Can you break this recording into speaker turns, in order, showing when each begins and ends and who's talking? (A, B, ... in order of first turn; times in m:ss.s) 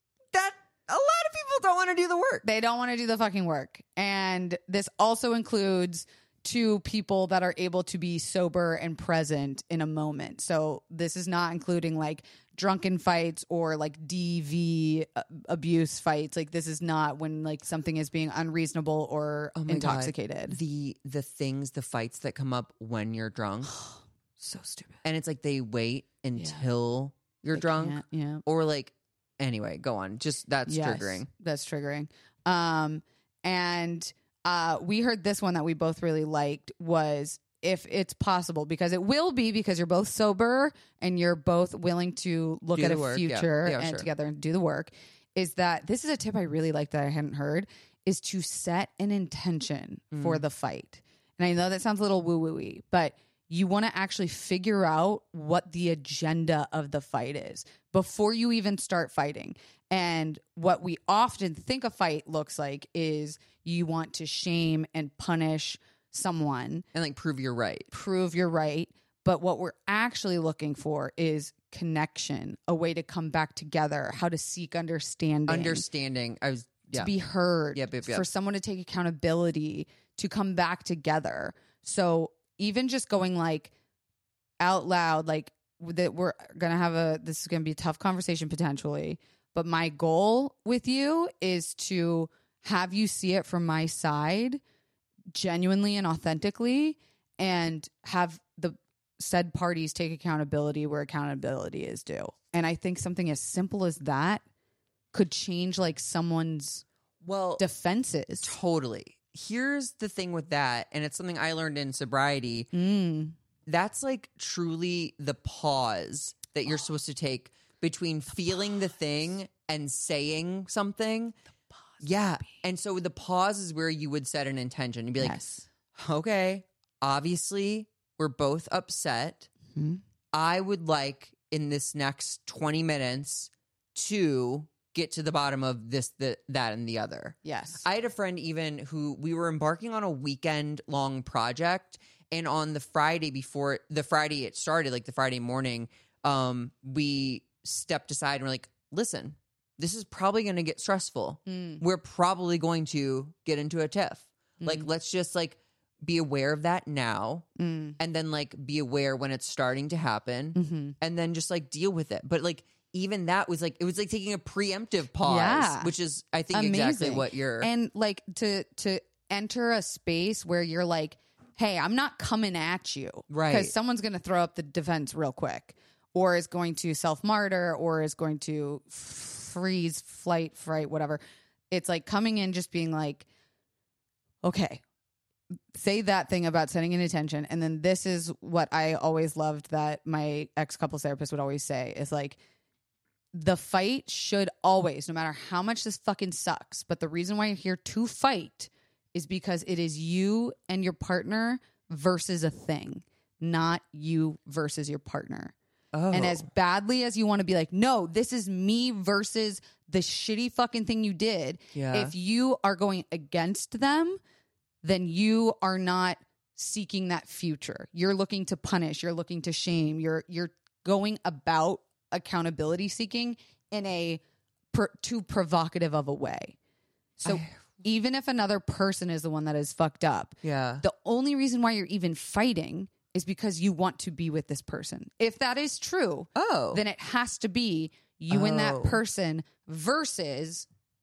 0:00.3-0:02.4 A
0:02.4-0:20.6 B
0:19.6-0:23.8 A
0:23.7-0:25.0 B
0:25.0-0:31.3 A
0:26.4-0:26.6 B
0:27.5-0:28.4 B
0:30.7-1:06.8 B
0:42.7-0:44.1 A
0:50.1-0:50.4 A
1:06.9-1:07.9 A
1:07.9-1:15.8 B
1:15.5-1:17.1 A
1:16.9-1:23.7 B
1:17.7-1:18.2 A
1:24.6-1:34.6 B
1:35.3-1:44.4 B
1:45.1-1:46.8 B
1:47.2-1:47.6 A
1:47.6-1:48.6 B
1:48.4-1:52.7 A
1:52.7-1:53.4 B
1:53.7-2:01.3 A
2:02.0-2:05.4 A
2:05.2-2:05.6 B
2:05.9-2:09.5 A
2:09.7-2:10.0 B
2:10.3-2:37.4 A
2:17.4-2:17.8 B
2:31.5-2:31.8 B
2:34.6-2:34.9 B
2:37.6-2:38.0 B
2:38.0-2:47.7 A
2:40.5-2:41.0 B
2:45.2-2:45.9 B
2:46.5-3:01.2 B
2:53.3-2:53.7 A
3:01.7-3:03.3 B
3:04.4-3:04.8 B
3:05.7-3:12.4 B
3:13.3-3:25.5 B
3:25.9-3:26.5 A
3:26.1-3:34.2 B
3:31.7-3:32.1 A
3:34.8-3:46.6 B
3:47.2-4:00.7 B
3:47.2-3:47.6 A
3:50.4-3:50.8 A
3:56.4-3:56.8 A
3:58.3-3:59.0 A